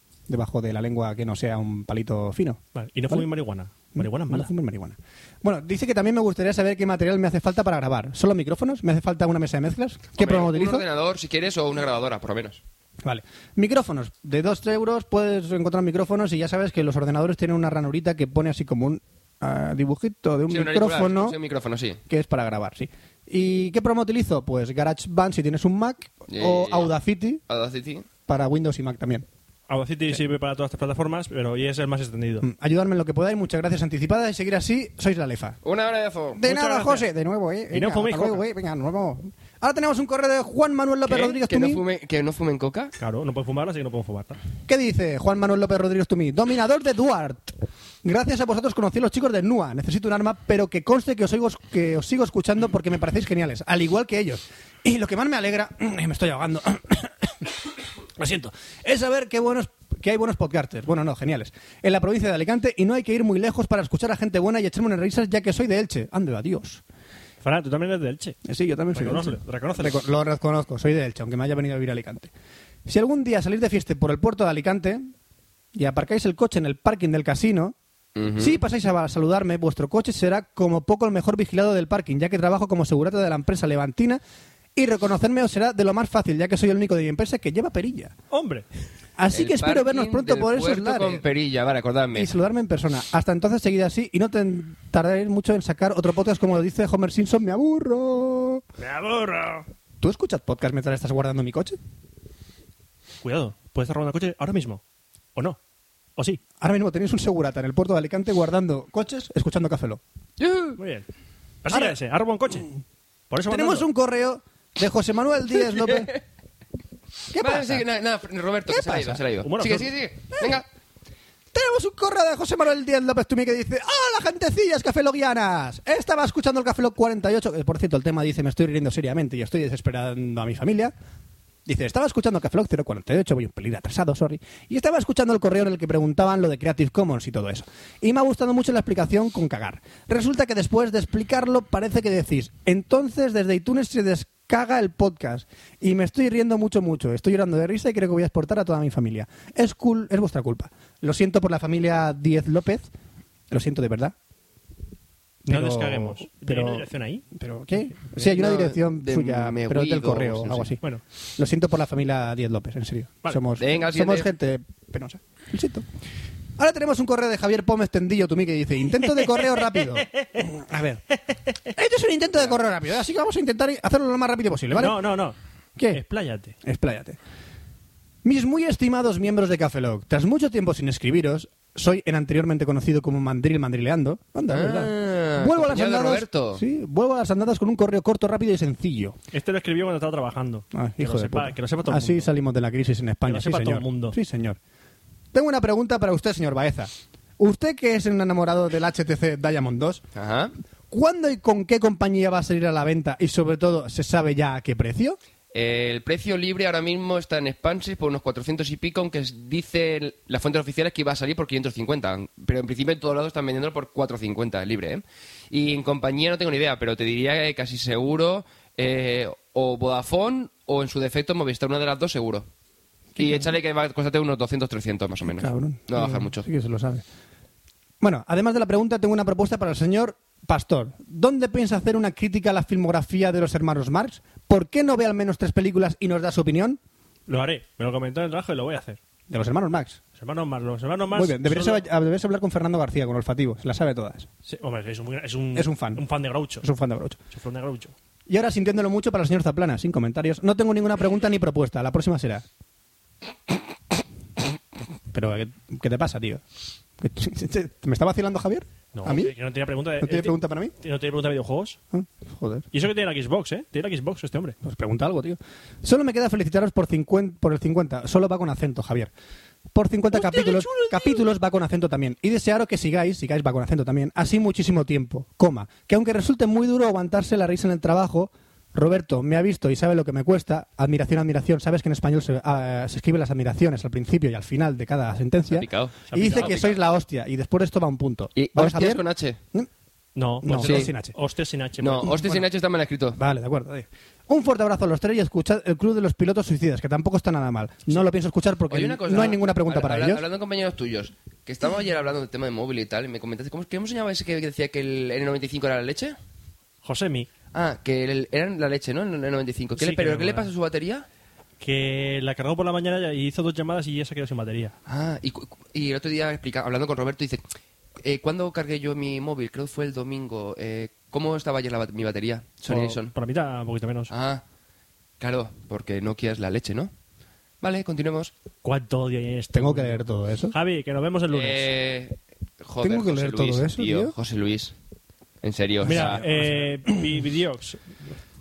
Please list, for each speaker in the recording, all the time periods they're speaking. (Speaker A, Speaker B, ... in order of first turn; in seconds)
Speaker A: 0.3-3.3, 4.0-10.8, 13.0-21.4, 22.1-27.4, 28.3-29.3, 32.4-35.6, 36.3-41.8, 44.7-57.5, 58.2-66.8, 68.5-72.3, 72.9-75.1, 75.7-77.8, 78.4-84.2, 84.8-88.2, 89.2-91.2, 92.1-98.6, 100.0-101.8, 106.6-110.0, 111.7-112.0, 113.5-116.1, 117.3-117.8, 118.7-119.2, 120.4-120.6, 121.5-130.9, 131.7-152.9, 153.5-154.2, 155.4-160.8, 161.4-165.9, 166.6-171.0, 171.7-175.0, 175.8-176.0, 176.6-177.2, 178.2-189.2, 190.7-194.6, 195.3-200.0, 200.9-205.2, 223.2-223.4, 225.2-227.0, 228.0-236.8, 239.3-240.0, 241.1-244.3, 245.6-247.2, 248.3-252.4, 255.1-256.4, 257.0-259.3, 260.0-260.7, 261.9-262.7, 264.6-269.1, 269.7-289.7, 290.4-291.1, 293.1-300.2, 329.5-330.6, 332.8-334.1, 335.9-336.3
Speaker B: 2.8-4.5, 29.7-32.5, 36.5-37.1, 37.7-38.5, 43.0-44.4, 67.4-68.4, 68.9-70.0, 88.3-88.7, 98.8-99.7, 103.2-104.8, 110.8-111.1, 111.6-112.7, 113.3-113.9, 119.4-119.9, 155.5-157.2, 169.2-170.5, 174.7-175.4, 175.9-176.6, 189.3-192.3, 193.3-194.2, 237.3-239.0, 240.2-241.8, 244.5-246.7, 247.3-247.9, 258.9-261.8, 262.7-264.6, 270.1-271.1, 286.1-286.6, 290.2-292.4, 306.8-307.3, 309.8-310.5, 311.6-314.8, 322.7-324.1, 328.6-331.7, 335.8-338.0
Speaker C: 10.2-12.6, 20.5-22.0, 26.3-26.9, 27.5-28.1, 35.6-36.4, 41.1-42.9, 78.2-78.6, 89.3-92.3, 110.4-110.8, 115.9-116.2, 117.4-120.7, 158.2-160.7, 163.6-164.3, 184.5-186.6, 200.2-200.5, 205.5-222.5, 223.2-226.4, 285.5-286.8, 288.4-289.4, 290.6-290.9, 291.8-293.2, 298.7-306.2, 307.5-311.1, 314.9-317.4, 318.0-323.1, 324.1-324.4, 325.2-326.9, 327.6-328.3, 331.3-334.7, 335.4-336.2